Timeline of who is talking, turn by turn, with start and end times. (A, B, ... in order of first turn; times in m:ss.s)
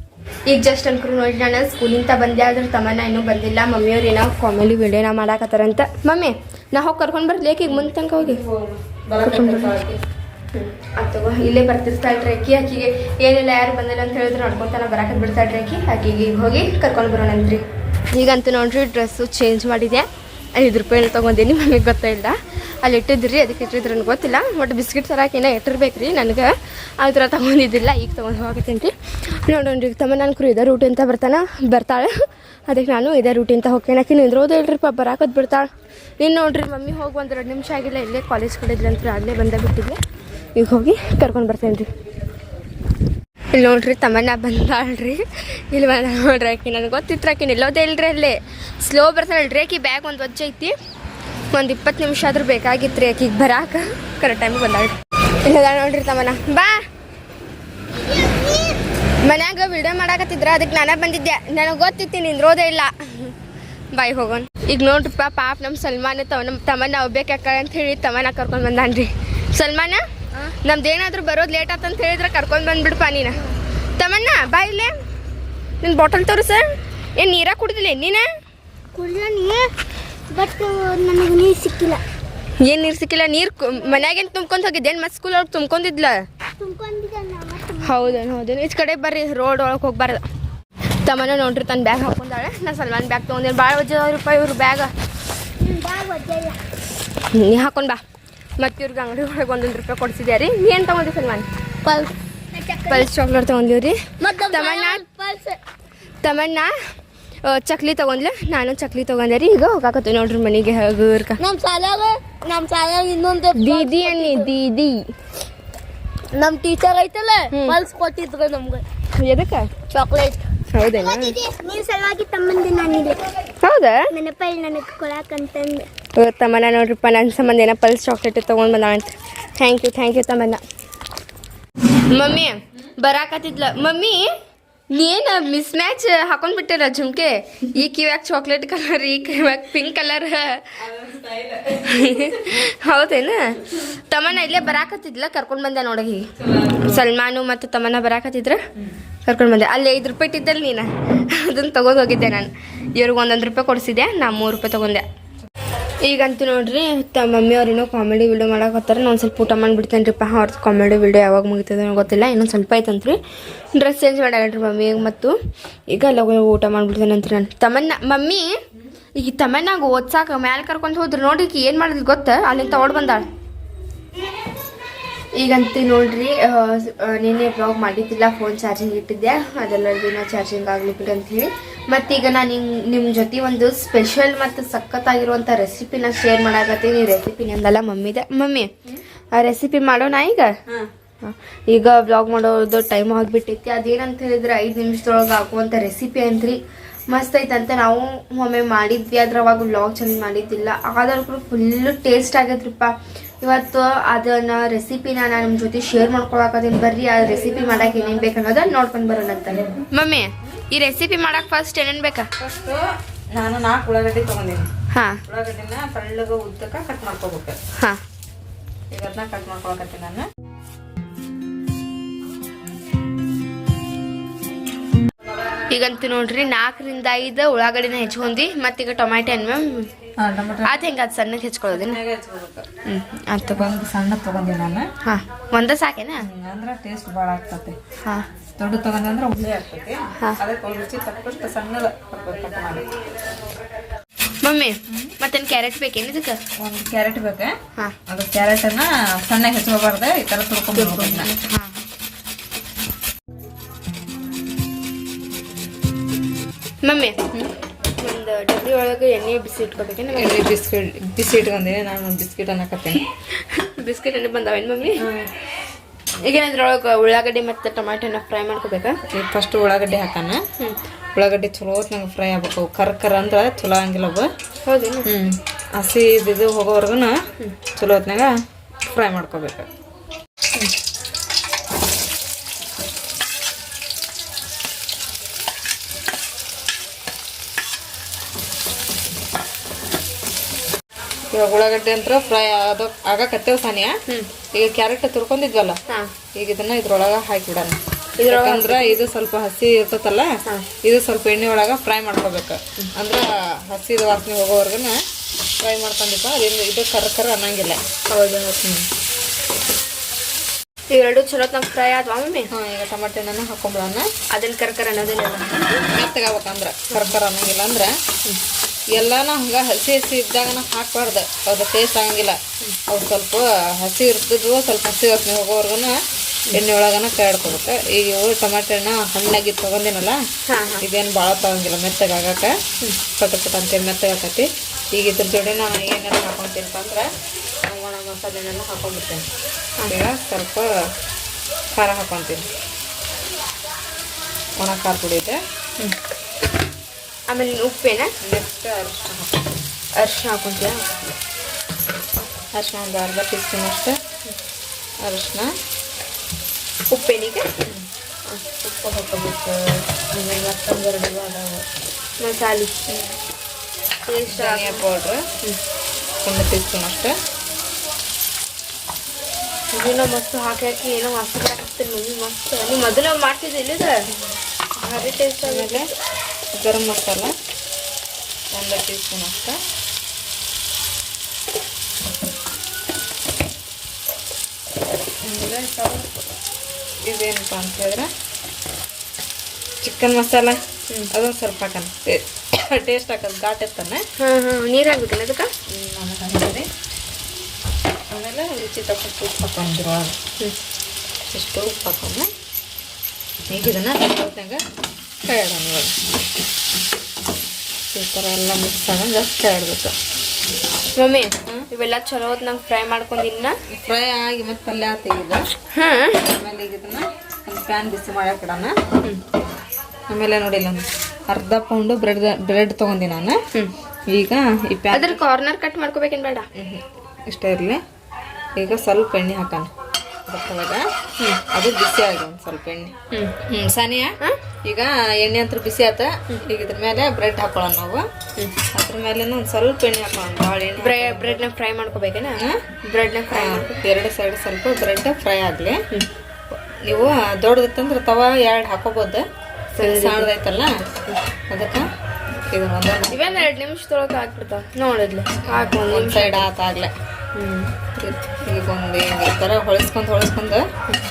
0:00.5-0:08.4 A
0:07.7-0:10.0 B
0:09.2-0:09.8 A
0:10.5-0:32.1 A
0:32.7-0:35.7 A
0:36.2-0:40.0 A
0:40.5-0:41.9 A
0:43.5-0:50.8 A
0:51.5-0:56.9 A
0:58.1-1:03.4 A
1:03.9-1:13.5 A
1:14.0-1:15.0 A
1:15.8-1:18.3 A
1:19.0-1:19.7 C
1:20.3-1:22.0 C
1:22.6-1:26.3 A
1:26.6-1:28.2 C
1:27.8-1:30.2 A
1:31.0-1:34.9 A
1:35.6-1:36.6 C
1:37.3-1:38.0 A
1:38.6-1:41.5 A
1:41.8-1:43.1 C
1:42.9-1:45.0 A
1:44.2-1:45.6 C
1:46.2-1:46.7 A
1:47.4-1:51.4 A
1:51.4-1:54.5 C
1:53.5-1:55.1 A
1:56.3-1:58.8 C
1:57.5-1:57.8 A
1:59.2-1:59.8 A
1:59.9-2:00.4 C
2:00.7-2:01.4 A
2:01.0-2:03.3 C
2:03.6-2:04.1 A
2:04.1-2:05.9 C
2:06.1-2:10.6 A
2:12.1-2:14.3 A
2:14.9-2:20.9 A
2:21.0-2:21.8 B
2:21.6-2:28.6 A
2:26.6-2:27.0 B
2:29.3-2:35.1 A
2:36.0-2:43.2 A
2:43.7-2:45.4 A
2:45.9-2:48.5 A
2:49.2-2:53.3 A
2:55.3-3:08.7 A
3:09.3-3:10.6 A
3:11.2-3:32.3 A
3:32.4-3:34.7 B
3:34.9-3:35.2 A
3:35.3-3:37.6 B
3:38.9-3:40.3 B
3:45.7-3:49.9 A
3:50.2-3:51.0 B
3:50.6-3:52.0 A
3:51.7-3:52.7 B
3:52.8-3:53.7 A
3:53.5-3:54.9 B
3:55.0-3:56.3 A
3:56.2-3:57.8 B
3:58.6-4:02.9 B
4:04.4-4:06.4 A
4:04.9-4:05.2 B
4:06.6-4:11.4 B
4:10.7-4:11.8 A
4:16.8-4:17.2 A
4:18.0-4:20.5 A
4:20.1-4:23.1 B
4:23.4-4:25.0 A
4:25.0-4:25.3 B
4:26.2-4:29.0 A
4:29.1-4:30.4 B
4:31.1-4:34.3 B
4:34.6-4:35.1 A
4:35.0-4:37.2 B
4:37.8-4:38.4 B
4:38.9-4:39.7 B
4:51.3-4:54.0 B
4:54.5-4:55.8 B
4:56.4-5:05.0 B
4:58.2-4:59.0 A
5:05.6-5:07.8 B
5:08.1-5:08.6 A
5:10.9-5:12.5 A
5:12.5-5:14.1 B
5:14.3-5:15.8 A
5:15.8-5:18.0 B
5:18.9-5:30.2 B
5:30.5-5:30.8 A
5:30.8-5:32.6 B
5:33.2-5:37.1 B
5:37.6-5:39.3 B
5:39.9-5:40.7 B
5:41.7-5:42.5 B
5:44.6-5:45.4 B
5:47.3-5:48.1 A
5:48.2-5:49.4 B
5:50.0-5:50.8 A
5:52.5-5:54.0 B
5:55.0-5:55.5 B
5:56.9-5:57.5 A
5:58.4-6:01.6 B
6:02.2-6:02.7 A
6:02.9-6:03.2 B
6:04.1-6:04.9 A
6:04.3-6:05.3 B
6:06.2-6:07.2 B
6:09.7-6:14.1 A
6:14.1-6:14.4 B
6:14.8-6:15.9 A
6:15.4-6:15.9 B
6:16.5-6:17.4 B
6:18.5-6:19.6 B
6:25.2-6:26.2 B
6:27.0-6:28.1 B
6:29.8-6:34.0 B
6:34.2-6:35.5 A
6:35.7-6:36.7 B
6:38.1-6:40.2 B
6:41.3-6:42.3 B
6:43.5-6:44.6 B
6:45.2-6:46.0 B
6:47.9-6:50.0 B
6:50.9-6:53.6 A
6:53.7-6:55.5 B
6:55.7-6:56.2 A
6:56.2-6:58.8 B
7:00.1-7:03.4 B
7:04.1-7:05.2 B
7:04.9-7:06.5 A
7:06.6-7:07.8 B
7:08.6-7:09.7 B
7:10.3-7:10.9 B
7:11.5-7:18.1 B
7:18.7-7:21.4 B
7:20.8-7:23.8 A
7:23.3-7:25.8 B
7:26.7-7:29.3 B
7:29.8-7:30.3 A
7:29.8-7:30.8 B
7:31.5-7:31.9 B
7:32.5-7:33.5 B
7:33.1-7:36.5 A
7:35.5-7:36.9 B
7:37.4-7:37.7 A
7:38.0-7:40.7 B